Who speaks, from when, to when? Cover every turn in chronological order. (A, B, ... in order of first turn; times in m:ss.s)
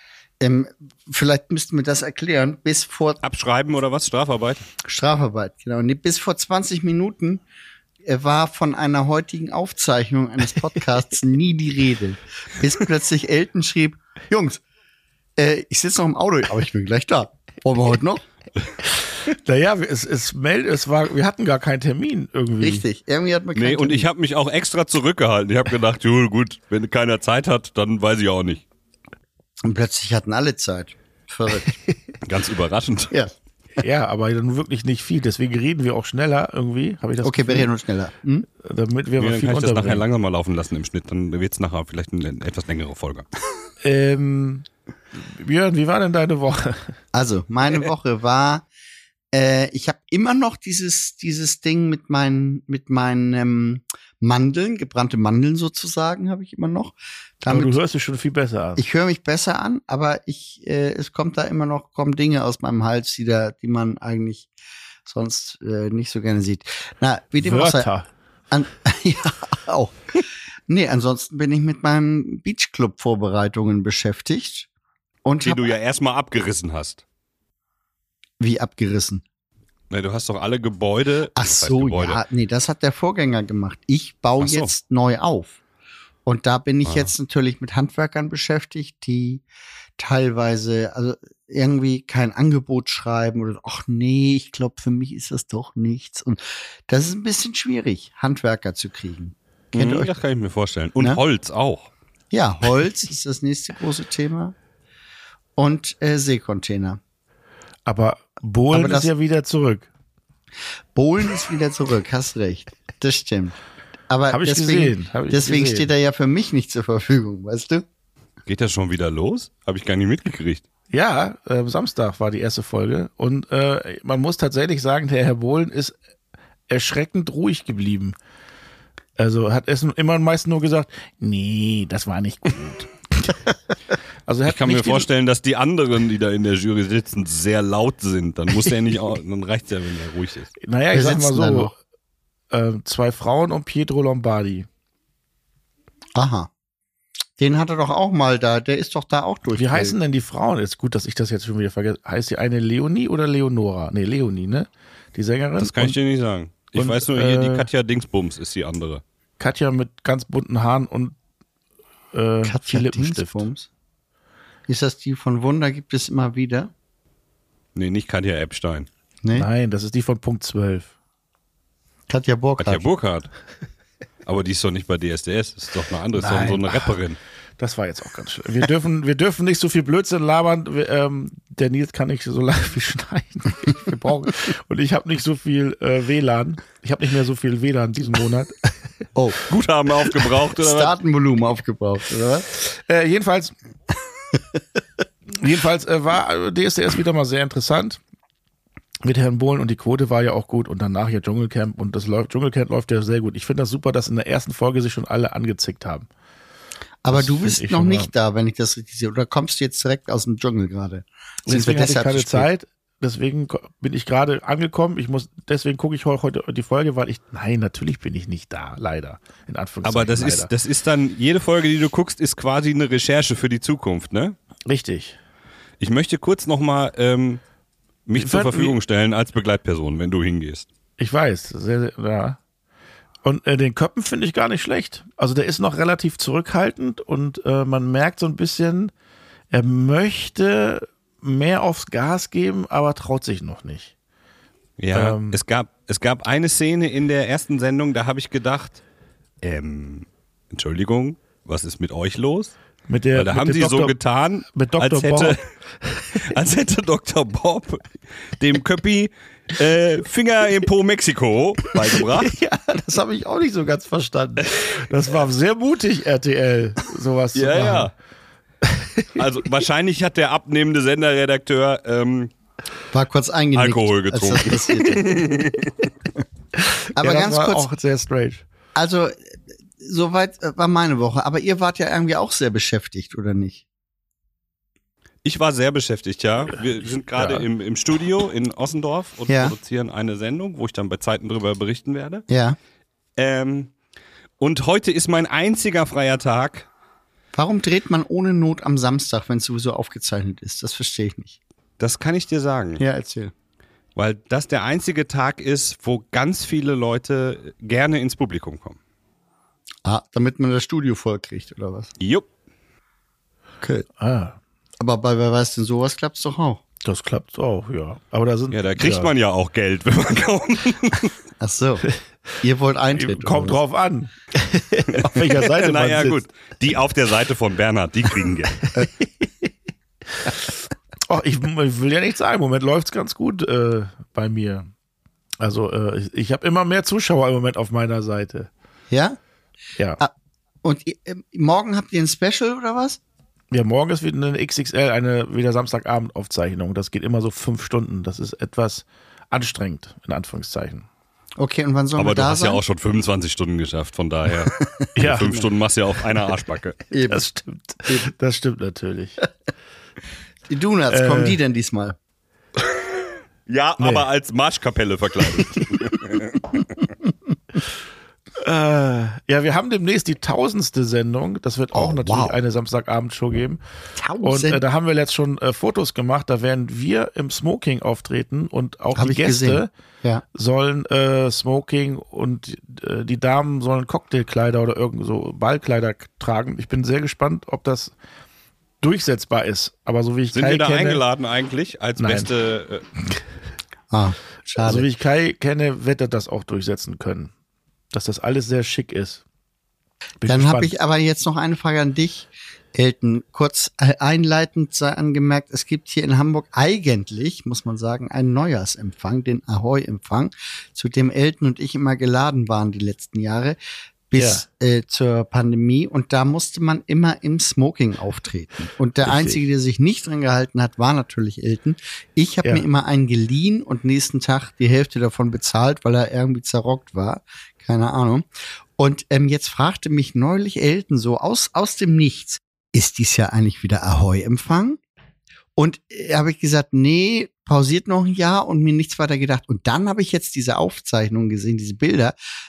0:00.4-0:03.2 A
0:03.2-0:04.6 B
0:04.8-0:07.4 A
0:08.0-0:14.6 A
0:15.4-0:18.2 A
0:19.2-0:22.8 C
0:22.6-0:24.1 A
0:23.6-0:28.6 B
0:29.6-0:31.8 A
0:32.2-0:33.1 B
0:33.8-0:37.7 C
0:37.2-0:38.5 A
0:38.6-0:40.0 C
0:39.2-0:43.3 B
0:43.8-0:46.9 C
0:47.1-0:48.6 A
0:49.3-0:57.8 A
0:57.5-0:58.8 C
0:58.8-1:04.5 A
1:05.0-1:07.9 A
1:07.4-1:08.1 C
1:08.5-1:10.0 A
1:10.7-1:14.7 A
1:15.2-1:15.7 A
1:15.4-1:17.0 B
1:18.4-1:19.2 A
1:19.9-1:22.2 B
1:21.4-1:25.6 A
1:24.4-1:24.7 B
1:26.2-1:29.4 A
1:30.0-1:40.1 A
1:39.7-1:41.9 B
1:42.3-1:44.5 A
1:45.6-1:47.0 A
1:47.9-1:49.9 C
1:48.7-1:49.1 A
1:51.0-1:53.5 A
1:54.1-1:57.8 A
1:54.3-1:55.9 C
1:58.5-2:00.6 B
2:00.9-2:06.0 C
2:06.7-2:08.2 C
2:09.2-2:13.4 C
2:14.2-2:15.1 C
2:14.5-2:20.5 B
2:20.6-2:21.8 C
2:20.9-2:21.7 A
2:22.5-2:24.7 C
2:26.1-2:26.5 A
2:27.4-2:30.0 A
2:29.5-2:36.0 C
2:35.6-2:39.0 B
2:36.8-2:37.7 C
2:39.4-2:41.1 C
2:42.1-2:43.5 C
2:42.4-2:43.7 A
2:44.7-2:46.7 A
2:47.8-2:48.9 B
2:49.3-2:50.9 C
2:52.1-2:52.9 A
2:52.6-2:53.3 B
2:54.2-2:57.2 B
2:56.1-2:57.0 C
2:57.6-3:08.8 C
3:09.1-3:09.4 A
3:09.5-3:11.0 B
3:10.6-3:12.5 A
3:12.6-3:13.5 C
3:15.3-3:18.0 C
3:19.0-3:26.1 C
3:27.0-3:32.5 A
3:27.1-3:28.1 C
3:31.5-3:40.5 C
3:39.8-3:44.4 B
3:44.6-3:45.2 C
3:45.8-3:47.4 B
3:48.1-3:50.7 B
3:48.1-3:48.8 C
3:51.0-3:52.4 C
3:53.2-3:58.9 C
3:59.5-4:03.9 C
4:04.8-4:08.8 B
4:04.9-4:05.4 C
4:09.4-4:12.5 B
4:12.9-4:14.0 C
4:13.1-4:15.4 B
4:14.5-4:16.2 C
4:16.2-4:22.4 B
4:22.0-4:27.9 C
4:27.3-4:27.9 B
4:28.6-4:29.2 C
4:29.1-4:32.3 B
4:32.9-4:35.2 A
4:33.5-4:35.7 B
4:37.0-4:37.7 A
4:37.0-4:38.4 C
4:38.8-4:39.2 A
4:39.8-4:43.6 A
4:45.2-4:52.2 B
4:47.2-4:47.5 C
4:49.3-4:49.6 A
4:52.3-4:52.6 A
4:53.2-4:53.7 B
4:54.4-4:56.7 B
4:57.4-5:01.4 A
5:01.8-5:02.8 B
5:02.8-5:03.3 A
5:04.0-5:08.8 B
5:09.8-5:11.9 A
5:12.0-5:12.2 B
5:13.6-5:13.9 A
5:14.0-5:14.4 C
5:14.8-5:16.6 A
5:16.8-5:19.1 C
5:18.5-5:21.1 B
5:21.4-5:21.9 A
5:22.4-5:23.6 A
5:23.0-5:26.2 C
5:24.9-5:28.6 B
5:28.8-5:29.2 C
5:30.2-5:30.5 C
5:31.1-5:34.7 C
5:35.4-5:38.5 C
5:38.9-5:39.2 A
5:40.6-5:43.0 A
5:43.5-5:50.9 C
5:51.4-5:52.6 A
5:52.0-5:56.8 B
5:54.6-5:54.9 A
5:55.0-5:55.4 C
5:56.9-5:57.3 A
5:57.1-5:59.2 C
5:57.8-5:58.1 A
6:00.5-6:02.0 A
6:00.9-6:01.4 C
6:03.5-6:06.6 B
6:03.8-6:04.1 C
6:08.4-6:13.6 C
6:11.7-6:12.4 A
6:14.0-6:14.6 A
6:14.2-6:19.7 C
6:19.0-6:20.2 A
6:20.3-6:27.9 C
6:28.8-6:31.0 C
6:30.3-6:32.8 B
6:32.0-6:32.3 C
6:33.9-6:34.9 A
6:34.6-6:37.3 C
6:37.9-6:39.2 C
6:40.2-6:40.8 C
6:40.2-6:53.6 A
6:54.1-7:08.2 A
6:54.2-6:54.4 C
6:59.0-6:59.4 C
7:08.8-7:14.8 A
7:15.6-7:22.1 A